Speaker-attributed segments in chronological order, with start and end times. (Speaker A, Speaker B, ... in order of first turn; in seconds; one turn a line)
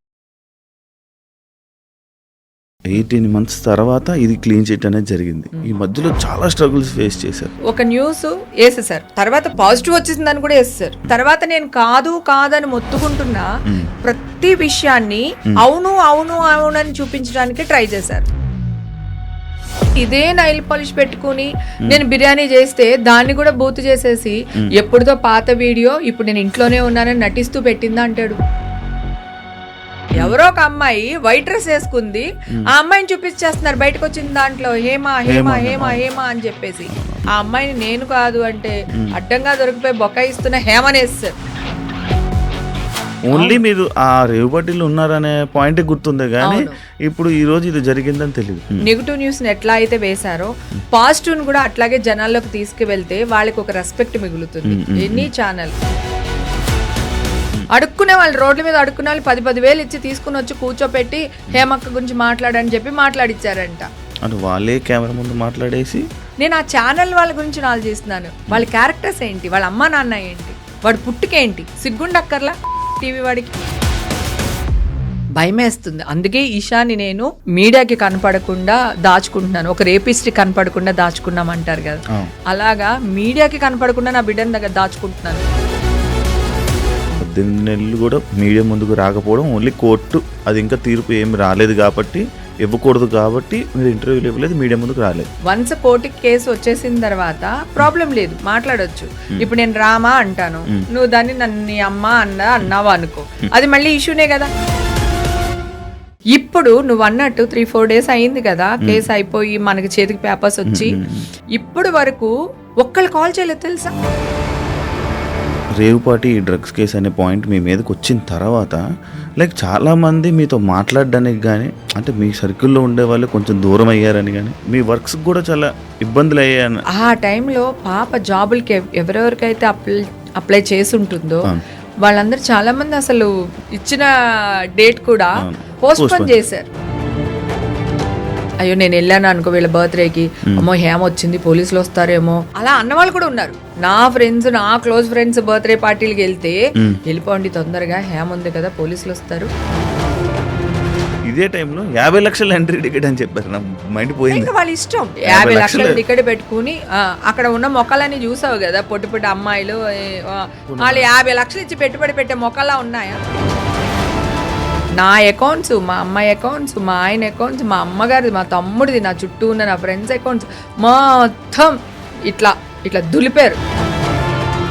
Speaker A: 2.9-7.5
Speaker B: 7.7-13.5
Speaker B: 14.0-18.3
Speaker B: 20.0-28.4
Speaker B: 30.2-41.3
Speaker A: 35.3-36.0
Speaker A: 36.9-37.3
Speaker A: 43.3-48.8
Speaker B: 43.3-43.6
Speaker B: 46.4-46.8
Speaker B: 48.8-55.7
Speaker A: 54.6-55.3
Speaker B: 57.7-63.9
Speaker A: 64.2-66.0
Speaker B: 66.4-73.6
Speaker B: 75.4-85.5
Speaker A: 87.2-95.3
Speaker B: 95.5-104.5
Speaker B: 106.3-111.0
Speaker A: 110.7-111.3
Speaker B: 111.5-114.0
Speaker A: 115.8-118.8
Speaker A: 119.4-126.8
Speaker B: 126.9-131.5
Speaker B: 132.0-134.1
Speaker B: 134.8-136.7
Speaker A: 135.4-136.4
Speaker B: 138.6-149.5
Speaker A: 151.3-154.5
Speaker B: 154.3-163.2
Speaker A: 155.3-156.0
Speaker A: 160.7-161.1
Speaker B: 165.0-171.7
Speaker B: 172.3-173.6